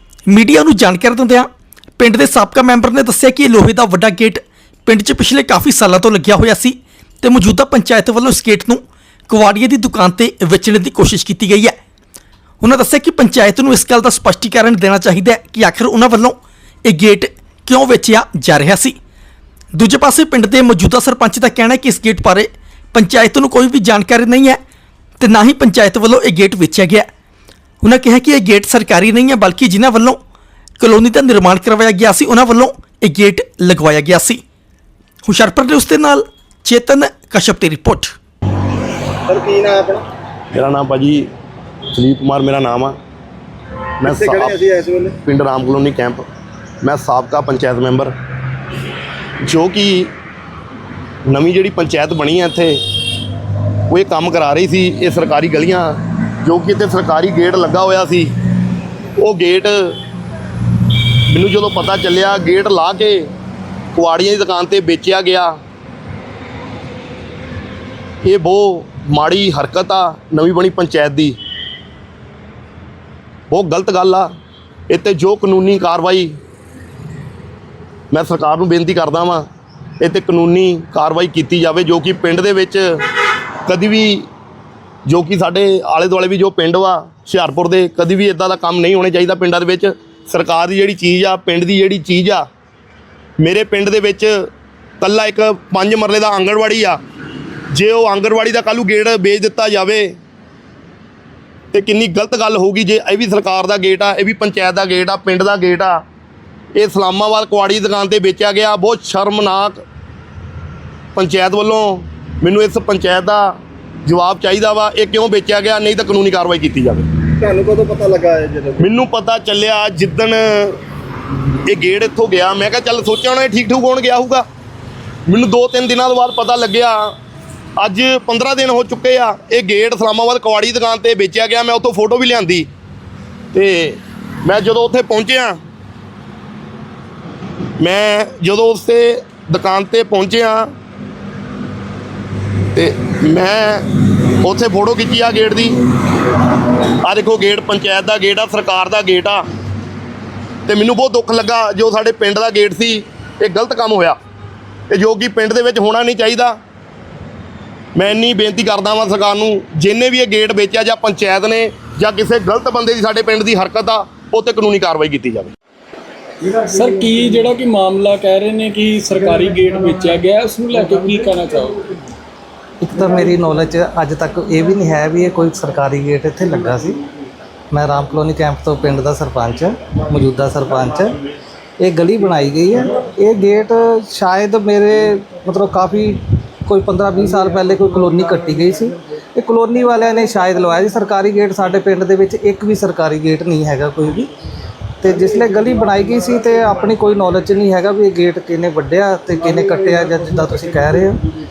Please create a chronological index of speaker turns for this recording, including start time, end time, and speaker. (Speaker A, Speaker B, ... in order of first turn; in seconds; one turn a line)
Speaker A: 0.3-11.8
Speaker A: 12.6-19.0
Speaker A: 19.7-24.6
Speaker A: 25.2-27.1
Speaker A: 27.8-30.2
Speaker A: 30.8-34.4
Speaker A: 35.3-38.1
Speaker B: 39.3-40.1
Speaker C: 40.5-41.3
Speaker C: 41.9-43.0
Speaker C: 44.0-44.6
Speaker B: 44.1-45.2
Speaker C: 45.2-46.3
Speaker C: 46.8-48.1
Speaker C: 49.4-50.1
Speaker C: 51.3-52.8
Speaker C: 53.9-58.3
Speaker C: 59.2-60.0
Speaker C: 61.3-63.3
Speaker C: 63.9-65.6
Speaker C: 68.2-71.4
Speaker C: 73.5-74.3
Speaker C: 74.9-76.4
Speaker C: 78.1-79.5
Speaker C: 80.0-83.0
Speaker C: 83.7-84.3
Speaker C: 85.1-92.5
Speaker C: 93.4-94.5
Speaker C: 95.0-97.0
Speaker C: 97.7-100.2
Speaker C: 101.7-106.0
Speaker C: 106.8-109.8
Speaker C: 111.2-117.1
Speaker B: 117.4-118.9
Speaker C: 118.8-120.8
Speaker C: 121.7-124.5
Speaker C: 125.3-127.2
Speaker C: 127.8-132.7
Speaker C: 133.5-135.6
Speaker C: 137.8-140.7
Speaker C: 142.8-149.4
Speaker C: 150.7-154.2
Speaker C: 154.9-156.6
Speaker C: 157.9-165.5
Speaker D: 166.5-171.9
Speaker E: 172.8-177.0
Speaker E: 177.7-181.2
Speaker E: 181.8-194.3
Speaker E: 195.0-201.2